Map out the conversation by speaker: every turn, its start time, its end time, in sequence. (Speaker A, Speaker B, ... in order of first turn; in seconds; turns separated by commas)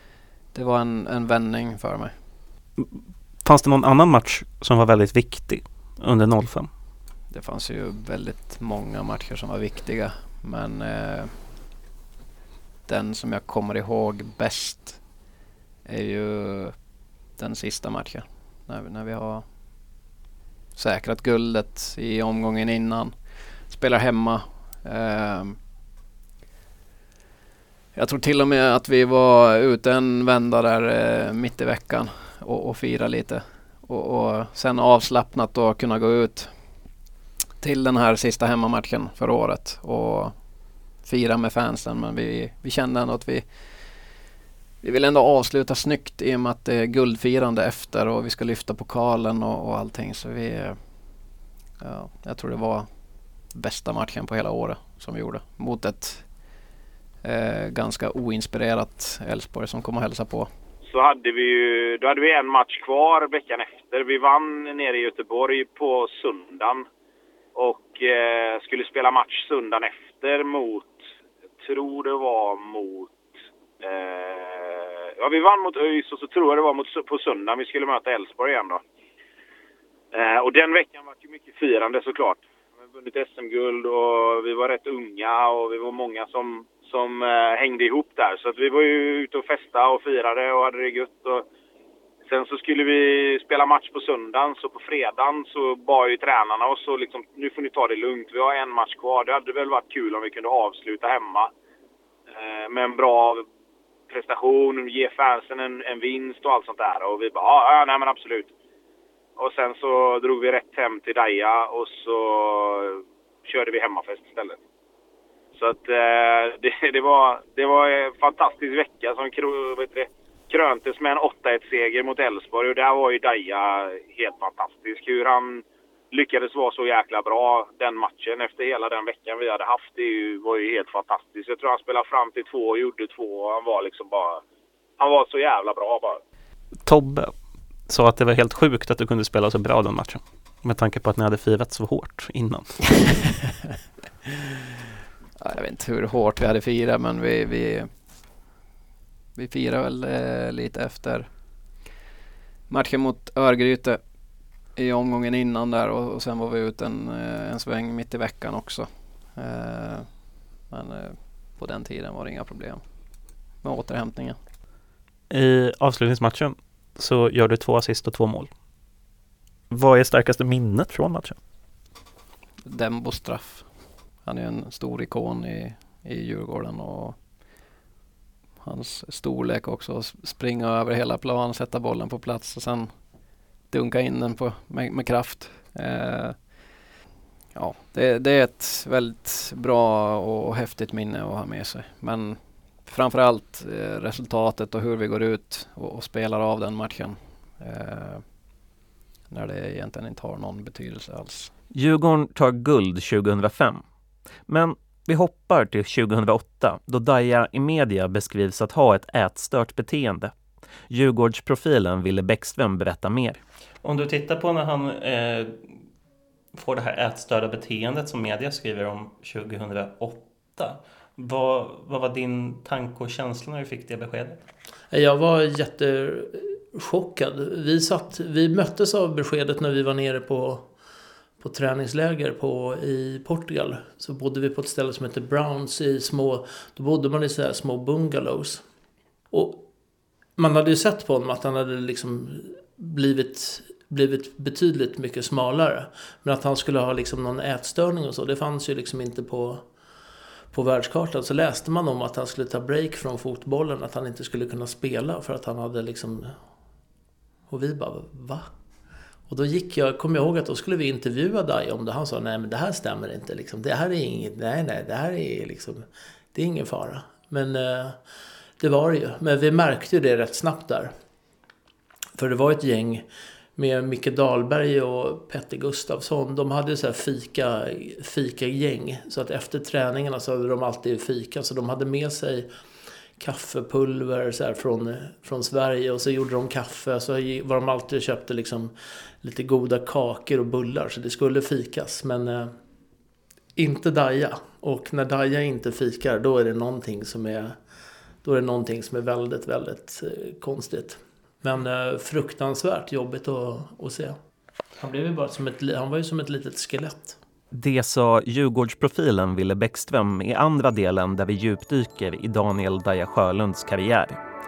Speaker A: 0.5-2.1, Speaker B: 3.4-6.7, Speaker A: 7.3-11.3, Speaker A: 12.9-15.0, Speaker A: 15.8-16.8, Speaker A: 17.4-19.5, Speaker A: 20.8-23.1, Speaker A: 23.7-25.6, Speaker A: 27.9-36.5, Speaker A: 37.6-40.3, Speaker A: 41.0-43.5, Speaker A: 44.8-50.8, Speaker A: 51.8-52.9, Speaker A: 53.5-56.3, Speaker A: 57.2-60.5, Speaker C: 60.9-66.9, Speaker C: 67.5-71.0, Speaker C: 71.6-73.2, Speaker C: 73.8-78.8, Speaker C: 80.1-91.5, Speaker C: 92.3-101.5, Speaker C: 102.3-103.5, Speaker C: 104.1-108.5, Speaker C: 109.4-114.6, Speaker C: 115.6-134.4, Speaker C: 135.0-136.2, Speaker B: 136.9-137.3, Speaker B: 137.9-143.1, Speaker A: 145.4-147.9, Speaker A: 149.4-151.3, Speaker A: 152.7-154.0, Speaker A: 154.8-160.1, Speaker A: 160.7-162.8, Speaker A: 163.6-164.4, Speaker B: 165.3-168.5, Speaker B: 169.7-171.4, Speaker A: 172.6-173.7, Speaker A: 174.2-177.2, Speaker A: 178.6-182.9, Speaker A: 183.7-186.4, Speaker A: 187.6-198.2, Speaker A: 199.3-201.5, Speaker D: 201.7-203.8, Speaker D: 204.5-210.3, Speaker D: 210.9-213.4, Speaker B: 213.8-215.6, Speaker B: 216.6-224.4, Speaker E: 224.9-230.7, Speaker E: 231.4-238.7, Speaker E: 239.3-239.7, Speaker E: 240.4-249.7, Speaker E: 250.5-256.4, Speaker E: 257.5-258.5, Speaker E: 259.3-268.0, Speaker E: 268.6-270.9, Speaker E: 272.1-273.1, Speaker E: 273.6-282.5, Speaker E: 283.2-292.6, Speaker E: 293.6-297.6, Speaker E: 298.2-304.2, Speaker E: 304.8-307.2, Speaker D: 307.5-314.2